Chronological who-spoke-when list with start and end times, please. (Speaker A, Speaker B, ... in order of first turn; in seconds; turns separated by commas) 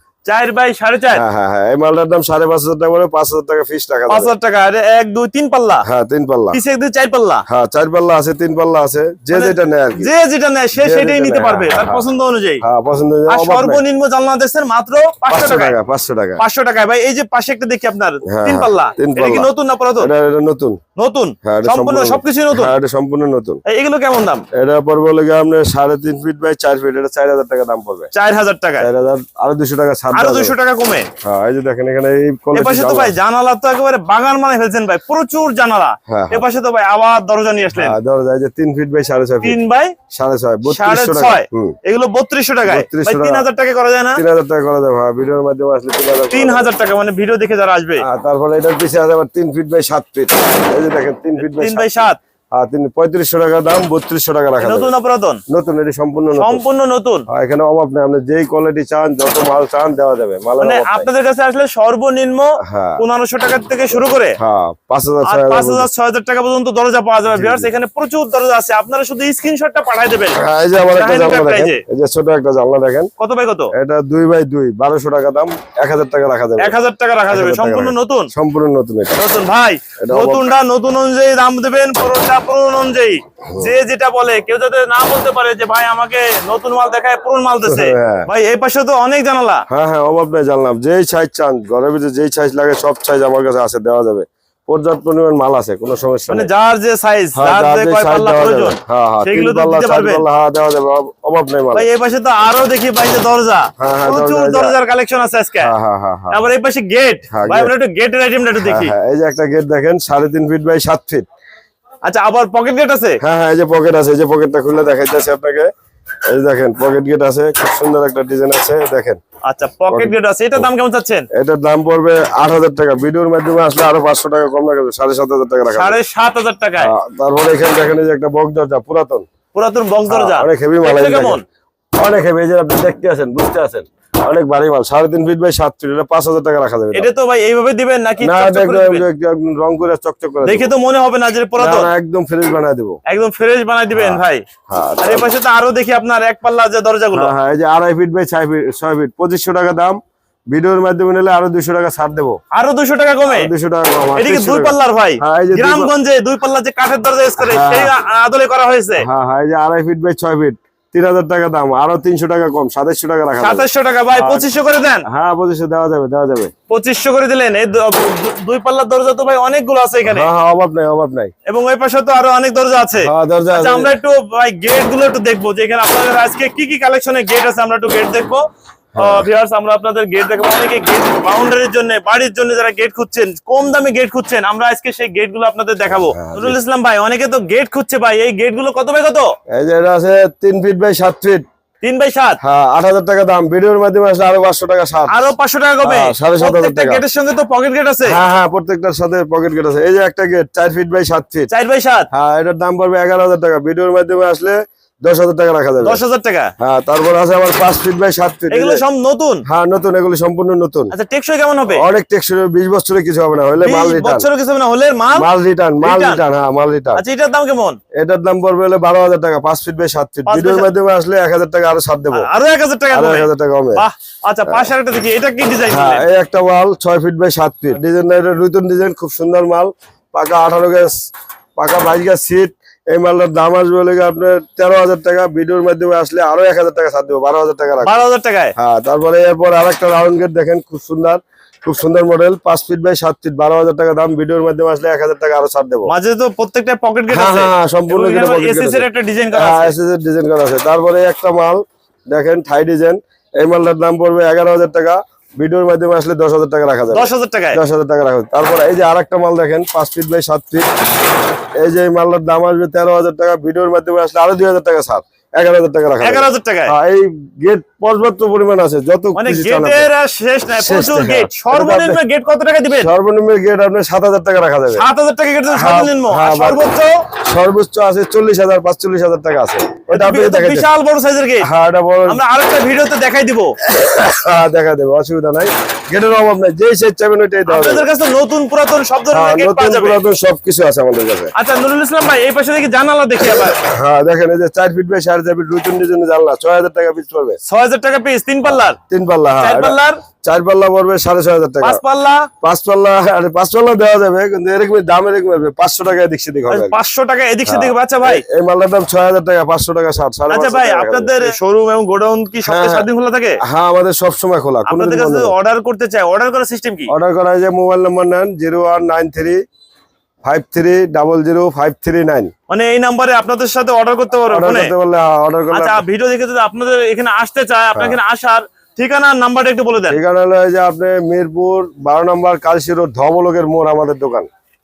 Speaker A: 0.2-1.2, Speaker B: 1.1-4.3, Speaker A: 4.1-5.9, Speaker B: 5.8-6.6, Speaker A: 6.5-7.5, Speaker B: 7.5-10.1, Speaker A: 9.3-12.6, Speaker B: 10.8-12.1, Speaker B: 12.6-13.8, Speaker A: 13.3-15.8, Speaker B: 15.3-16.4, Speaker A: 16.4-20.1, Speaker B: 18.3-19.5, Speaker B: 20.0-20.8, Speaker A: 21.0-22.7, Speaker B: 21.4-23.6, Speaker A: 23.6-24.4, Speaker B: 24.5-28.1, Speaker A: 28.1-28.9, Speaker B: 28.8-30.6, Speaker A: 30.1-31.1, Speaker B: 31.2-33.1, Speaker A: 32.5-38.0, Speaker B: 36.1-36.5, Speaker B: 37.7-39.6, Speaker A: 39.4-40.0, Speaker B: 40.1-41.8, Speaker A: 40.7-44.2, Speaker B: 42.6-43.5, Speaker B: 44.1-46.7, Speaker A: 46.3-48.0, Speaker B: 48.0-54.9, Speaker A: 51.4-52.2, Speaker A: 54.6-55.4, Speaker B: 55.5-56.6, Speaker A: 56.4-57.3, Speaker B: 57.3-61.1, Speaker A: 60.6-64.4, Speaker B: 62.6-63.0, Speaker B: 63.9-65.9, Speaker A: 65.2-71.8, Speaker B: 67.3-67.7, Speaker B: 70.4-73.1, Speaker A: 73.2-73.7, Speaker B: 73.8-76.8, Speaker A: 76.6-78.3, Speaker B: 77.3-79.2, Speaker A: 79.2-89.6, Speaker B: 80.0-80.5, Speaker B: 87.7-88.3, Speaker B: 89.7-96.5, Speaker A: 96.3-100.2, Speaker B: 97.4-101.9, Speaker A: 101.7-105.7, Speaker B: 103.8-104.8, Speaker B: 105.6-106.5, Speaker A: 106.3-108.9, Speaker B: 107.3-107.7, Speaker B: 108.6-111.2, Speaker A: 112.0-113.2, Speaker B: 113.2-115.7, Speaker B: 116.3-119.2, Speaker A: 119.5-121.3, Speaker B: 119.9-120.7, Speaker B: 121.3-126.0, Speaker A: 125.7-126.9, Speaker B: 126.8-129.2, Speaker A: 129.5-131.4, Speaker B: 130.1-131.4, Speaker B: 132.0-137.1, Speaker A: 136.9-139.1, Speaker B: 138.2-140.7, Speaker A: 140.4-141.9, Speaker B: 141.6-143.0, Speaker A: 143.1-144.4, Speaker B: 143.9-145.3, Speaker A: 145.0-147.3, Speaker B: 147.1-150.0, Speaker B: 150.5-152.4, Speaker A: 152.5-153.5, Speaker B: 153.3-155.9, Speaker A: 154.2-159.1, Speaker B: 157.4-157.9, Speaker B: 159.0-164.5, Speaker A: 163.4-165.1, Speaker B: 165.1-166.5, Speaker A: 166.7-170.3, Speaker B: 170.1-171.3, Speaker A: 171.5-178.4, Speaker B: 173.0-173.9, Speaker B: 179.0-179.3, Speaker A: 179.0-189.3, Speaker B: 185.9-186.6, Speaker B: 189.5-191.4, Speaker A: 191.8-192.4, Speaker B: 192.4-195.3, Speaker A: 195.1-198.2, Speaker B: 195.8-197.0, Speaker B: 198.1-201.5, Speaker A: 201.5-202.1, Speaker B: 202.1-206.0, Speaker A: 205.8-206.5, Speaker B: 206.6-208.8, Speaker A: 208.5-209.4, Speaker B: 209.5-210.9, Speaker A: 210.9-211.8, Speaker B: 211.7-214.3, Speaker A: 213.6-215.3, Speaker B: 215.2-217.0, Speaker A: 215.8-216.2, Speaker A: 216.9-217.8, Speaker B: 217.9-222.3, Speaker A: 220.3-220.7, Speaker A: 222.1-226.1, Speaker B: 222.9-223.8, Speaker B: 225.7-230.9, Speaker B: 231.6-237.9, Speaker A: 237.8-238.5, Speaker B: 238.6-245.9, Speaker A: 245.9-249.7, Speaker B: 247.1-260.7, Speaker A: 256.9-257.6, Speaker B: 261.6-269.9, Speaker A: 266.0-266.7, Speaker A: 269.1-272.9, Speaker B: 270.6-272.0, Speaker B: 272.8-274.8, Speaker A: 274.7-277.0, Speaker B: 275.5-276.7, Speaker B: 277.3-280.7, Speaker A: 279.9-281.5, Speaker B: 281.4-282.2, Speaker A: 282.1-283.6, Speaker B: 283.6-287.9, Speaker A: 287.5-290.0, Speaker B: 289.1-291.3, Speaker A: 291.4-293.6, Speaker B: 293.6-297.4, Speaker A: 297.5-298.8, Speaker B: 298.5-301.8, Speaker A: 299.4-300.0, Speaker A: 301.6-302.3, Speaker B: 302.4-306.8, Speaker A: 306.5-308.2, Speaker B: 307.5-311.3, Speaker A: 310.3-313.4, Speaker B: 312.4-312.9, Speaker B: 313.5-315.3, Speaker A: 314.7-316.9, Speaker B: 316.9-319.4, Speaker B: 320.2-322.3, Speaker A: 322.5-324.7, Speaker B: 324.3-325.8, Speaker A: 325.5-330.0, Speaker B: 329.9-334.3